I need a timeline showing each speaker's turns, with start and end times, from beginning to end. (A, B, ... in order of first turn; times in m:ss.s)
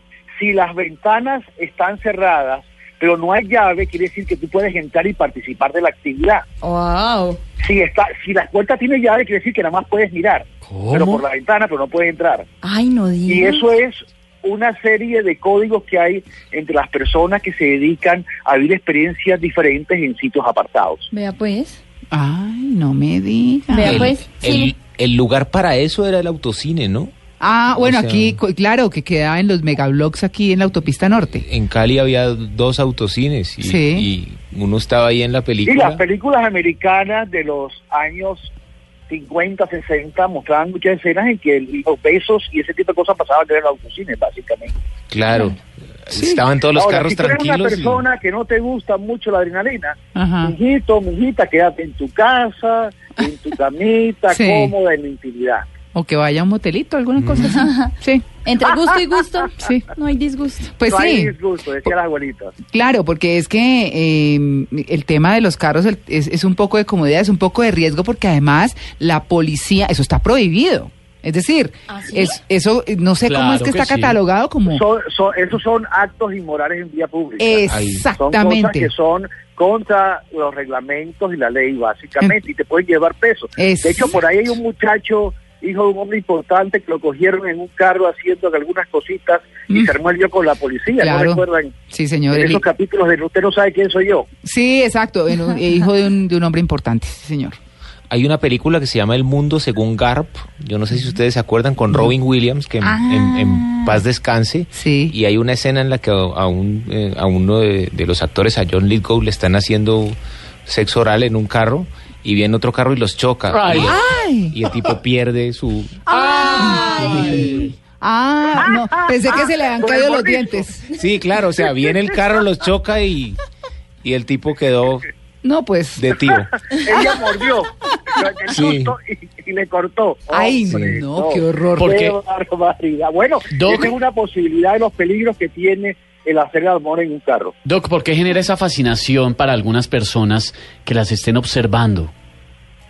0:00.3-0:06.4 A
0:06.6-0:07.4 B
0:07.6-0:12.5 A
0:10.6-0:11.2 C
0:12.6-0:13.6 B
0:13.2-0:21.1 A
0:21.1-0:21.8 B
0:22.1-0:24.1 D
0:23.7-0:24.7 B
0:23.8-0:27.1 E
0:27.4-0:31.4 D
0:27.8-0:28.4 E
0:31.3-0:36.0 E
0:33.6-0:34.1 D
0:35.6-0:38.5 A
0:39.1-0:44.7 A
0:45.1-0:48.0 E
0:46.1-0:46.4 D
0:46.7-0:55.7 A
0:50.1-0:50.5 D
0:54.3-0:54.7 D
0:55.9-0:58.3 D
0:57.2-0:57.6 E
0:57.4-0:57.9 B
0:58.4-1:00.8 B
0:58.7-0:59.3 A
0:59.6-0:59.9 D
1:00.8-1:01.9 D
1:00.9-1:02.5 A
1:02.7-1:14.8 D
1:13.2-1:14.2 C
1:14.7-1:31.7 A
1:17.4-1:18.9 D
1:17.7-1:18.0 E
1:23.6-1:24.1 D
1:31.0-1:32.6 D
1:32.3-1:34.3 A
1:34.4-1:37.6 D
1:38.1-1:56.0 E
1:42.8-1:44.0 D
1:44.7-1:45.1 D
1:53.5-1:54.0 C
1:53.8-1:54.6 D
1:56.1-2:00.9 D
1:56.1-1:57.7 C
1:56.7-1:57.2 B
1:58.5-2:00.6 A
2:01.0-2:03.4 E
2:01.6-2:02.2 A
2:04.0-2:05.0 E
2:05.4-2:06.1 D
2:06.0-2:06.5 E
2:06.6-2:17.5 A
2:06.9-2:07.3 D
2:08.5-2:08.9 E
2:10.3-2:12.1 D
2:11.8-2:12.1 C
2:13.5-2:13.9 C
2:17.6-2:22.1 C